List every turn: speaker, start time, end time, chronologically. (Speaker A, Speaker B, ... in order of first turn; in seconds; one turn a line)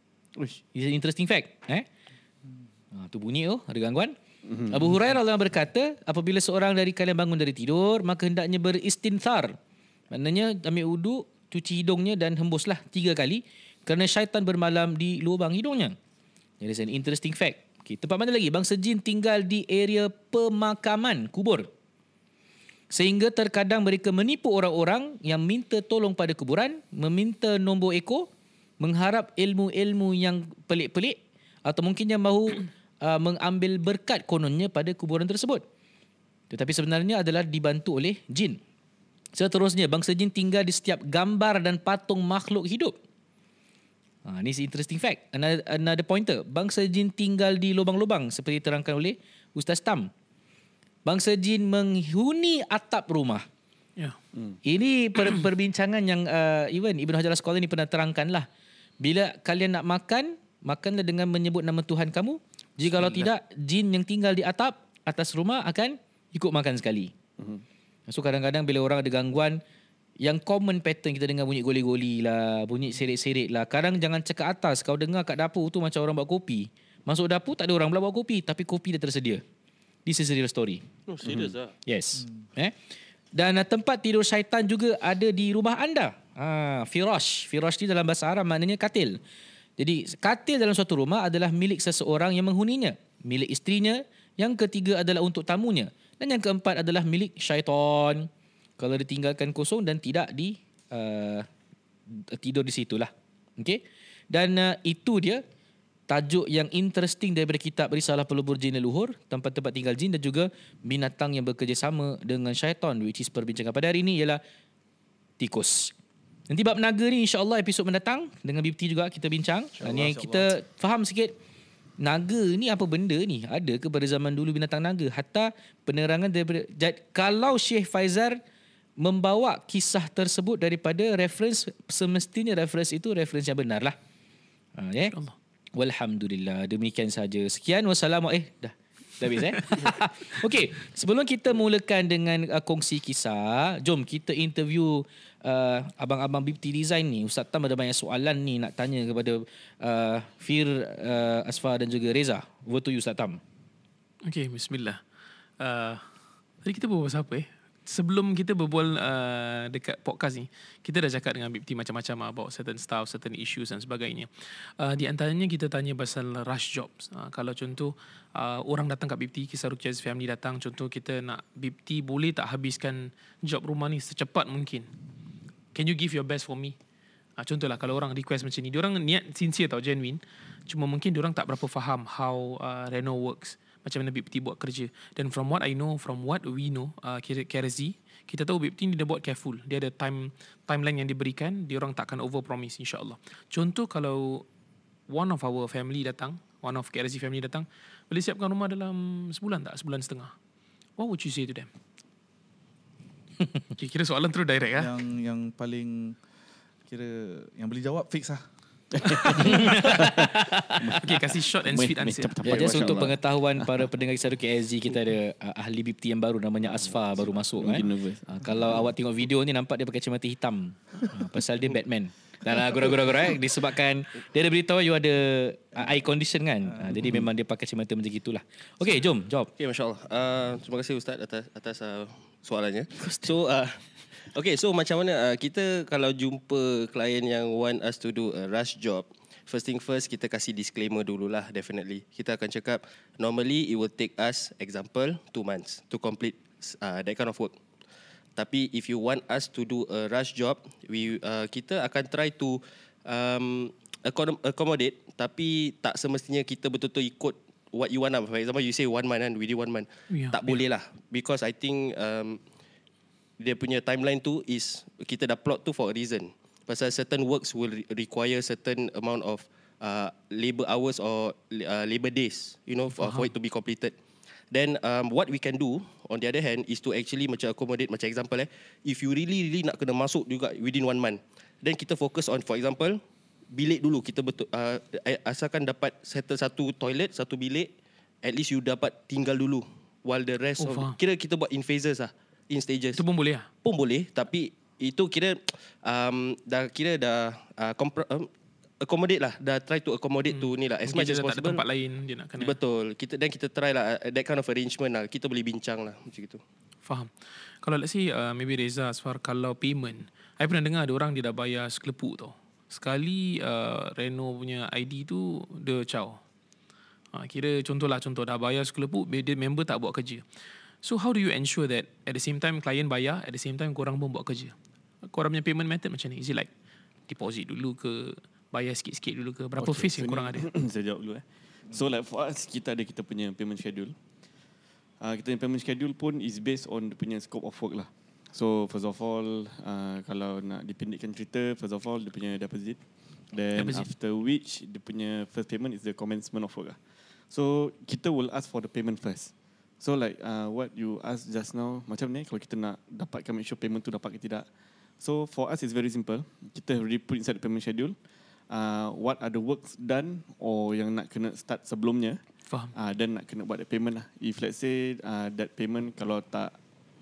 Speaker A: 0.7-1.9
Speaker A: 2.9-4.2
Speaker B: 4.5-5.0
Speaker A: 4.7-9.6
Speaker A: 10.1-16.0
Speaker A: 16.6-21.7
Speaker A: 22.9-28.3
Speaker A: 28.8-35.6
Speaker A: 36.5-38.6
Speaker A: 39.3-42.9
Speaker A: 44.2-50.1
Speaker A: 51.0-53.4
Speaker A: 54.6-58.5
Speaker A: 59.0-67.1
Speaker B: 62.9-63.3
Speaker A: 68.1-69.6
Speaker A: 70.2-79.4
Speaker A: 80.0-80.8
Speaker C: 81.1-81.7
Speaker B: 81.2-81.5
Speaker A: 81.8-82.7
Speaker A: 83.3-89.2
Speaker A: 89.8-101.5
Speaker A: 102.1-105.4
Speaker A: 106.1-114.4
Speaker A: 115.4-115.9
Speaker A: 116.5-121.3
Speaker D: 119.8-120.5
Speaker A: 122.0-128.4
Speaker A: 129.0-133.9
Speaker A: 134.8-135.1
Speaker A: 135.8-153.4
Speaker E: 154.2-155.0
Speaker E: 155.6-156.0
Speaker E: 156.6-174.9
Speaker E: 175.7-176.7
Speaker E: 177.4-194.4
Speaker E: 195.1-200.3
Speaker E: 201.0-201.7
Speaker E: 203.8-204.9
Speaker D: 204.8-206.2
Speaker D: 206.9-208.4
Speaker B: 208.9-211.0
Speaker E: 209.2-209.8
Speaker A: 209.3-210.9
Speaker E: 211.0-212.9
Speaker B: 211.6-213.9
Speaker A: 212.4-229.5
Speaker B: 217.5-218.3
Speaker C: 229.6-247.6
Speaker C: 248.3-262.4
Speaker E: 260.1-260.6
Speaker C: 263.4-273.9
Speaker E: 273.0-273.3
Speaker C: 274.5-287.7
Speaker C: 288.2-293.0
Speaker E: 290.6-291.0
Speaker E: 292.9-293.5
Speaker C: 293.6-298.3
Speaker C: 298.8-301.6
Speaker E: 300.3-302.6
Speaker C: 302.4-306.4
Speaker E: 306.8-316.2
Speaker E: 317.1-320.2
Speaker E: 320.8-326.5
Speaker E: 327.1-330.5
Speaker B: 329.6-333.9
Speaker B: 335.0-342.8
Speaker B: 343.3-346.8
Speaker E: 343.5-343.9
Speaker B: 347.3-354.5
Speaker B: 355.0-357.9
Speaker B: 358.5-362.2
Speaker E: 362.5-362.7
Speaker B: 362.7-366.5